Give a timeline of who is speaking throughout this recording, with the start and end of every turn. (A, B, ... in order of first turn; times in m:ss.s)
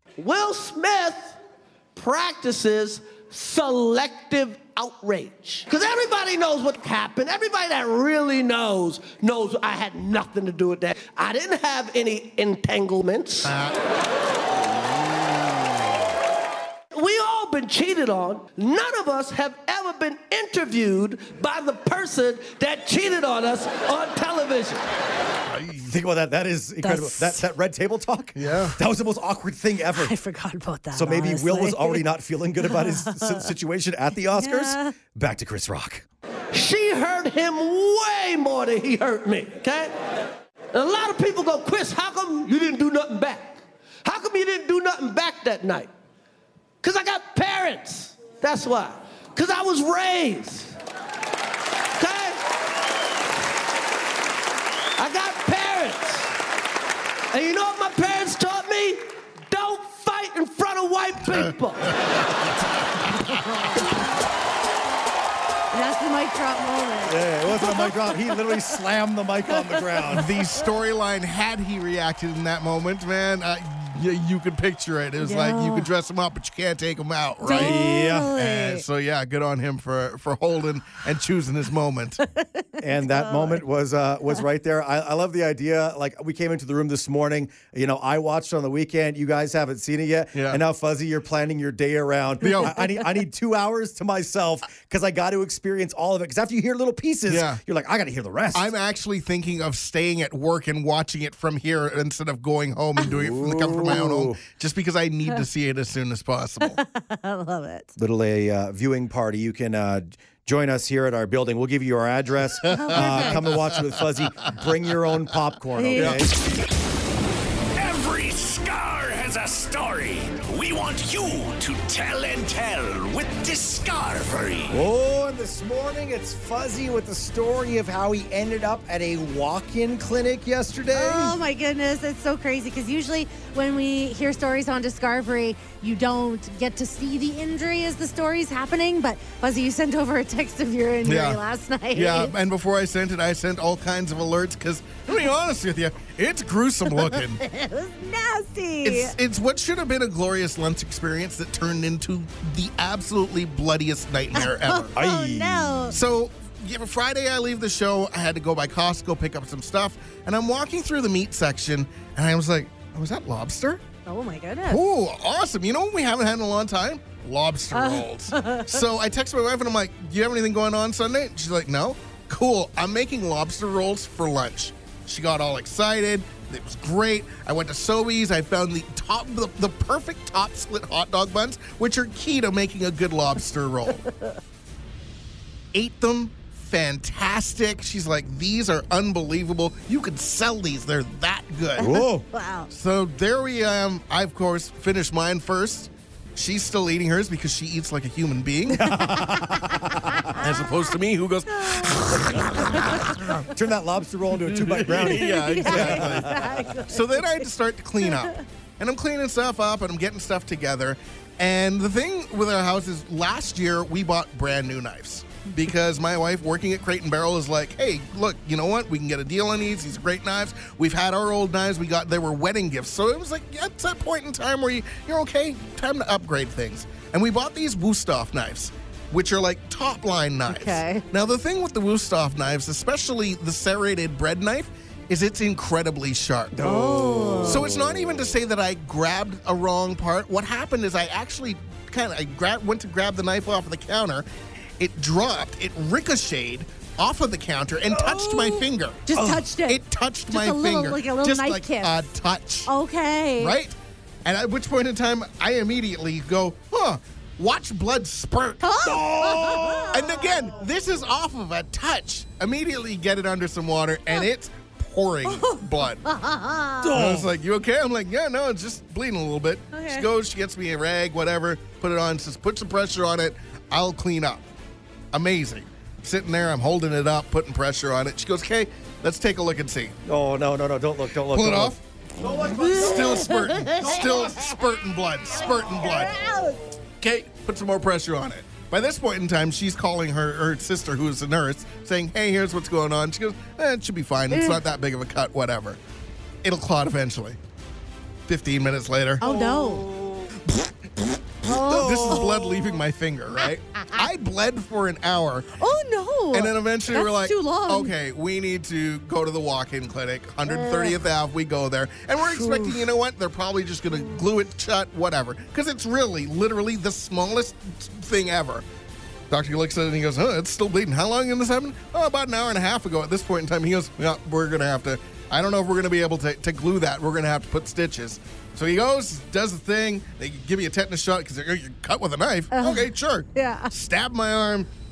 0:00.2-0:01.4 A
0:01.9-0:13.5 A
0:13.4-0:13.8 B
0:16.9-0:24.8 A
0:25.5-0:25.9 B
0:25.8-0:30.1 C
0:26.8-0:27.4 D
0:28.4-0:28.8 B
0:29.9-0:32.0 D
0:30.9-0:36.0 C
0:32.6-0:33.5 D
0:34.3-0:34.9 D
0:36.5-0:40.0 A
0:40.7-0:45.9 A
0:46.8-0:50.8 A
0:52.0-0:52.4 A
0:55.0-0:56.3 A
0:57.3-1:02.0 A
1:05.7-1:08.6 D
1:07.0-1:10.3 C
1:09.6-1:10.2 D
1:10.1-1:22.2 B
1:15.2-1:15.9 D
1:17.4-1:18.8 D
1:17.4-1:18.3 C
1:22.4-1:23.6 D
1:22.8-1:38.7 C
1:30.3-1:30.6 B
1:32.4-1:32.8 B
1:37.3-1:37.6 B
1:38.5-1:46.8 B
1:43.0-1:44.4 C
1:46.6-1:47.9 D
1:48.0-1:56.3 C
1:52.7-1:53.6 B
1:52.7-1:53.5 D
1:55.8-1:56.3 D
1:55.9-1:56.2 B
1:57.8-2:04.8 E
2:04.7-2:11.3 C
2:11.0-2:22.3 D
2:21.0-2:21.4 B
2:21.9-2:27.4 B
2:26.9-2:29.1 D
2:28.8-2:34.9 B
2:34.3-2:36.0 D
2:34.9-2:35.9 C
2:35.9-2:43.8 B
2:44.0-2:44.8 D
2:44.7-3:04.0 B
2:47.7-2:48.8 D
3:05.7-3:11.8 B
3:11.8-3:12.7 D
3:11.8-3:12.3 C
3:12.7-3:19.0 B
3:18.7-3:20.4 C
3:19.2-3:19.6 D
3:20.3-3:23.4 B
3:20.3-3:20.8 D
3:21.5-3:23.0 D
3:23.4-3:26.6 C
3:24.4-3:56.5 B
3:24.9-3:27.5 D
3:28.0-3:28.4 D
3:50.5-3:51.0 D
3:56.5-3:58.3 C
3:56.6-3:57.7 D
3:57.5-4:04.2 B
4:04.8-4:12.7 B
4:07.9-4:12.1 D
4:09.1-4:09.4 C
4:12.7-4:13.6 D
4:13.4-4:18.7 B
4:18.6-4:20.4 D
4:18.8-4:20.2 C
4:19.9-4:26.0 B
4:25.2-4:27.1 D
4:26.8-4:27.3 C
4:26.9-4:34.4 B
4:29.7-4:30.1 D
4:35.1-4:39.9 B
4:40.0-4:44.3 C
4:41.3-4:41.8 B
4:42.4-4:44.0 D
4:42.6-4:46.2 B
4:45.4-4:46.6 D
4:47.0-4:55.8 B
4:54.3-4:54.6 D
4:56.4-4:57.4 B
4:58.3-4:59.2 B
4:59.2-4:59.8 D
4:59.2-5:00.3 C
5:01.4-5:02.5 C
5:01.5-5:02.6 D
5:01.6-5:05.5 B
5:05.6-5:07.9 D
5:06.3-5:18.6 B
5:10.4-5:11.0 D
5:12.3-5:12.8 D
5:19.3-5:34.7 B
5:32.5-5:33.7 D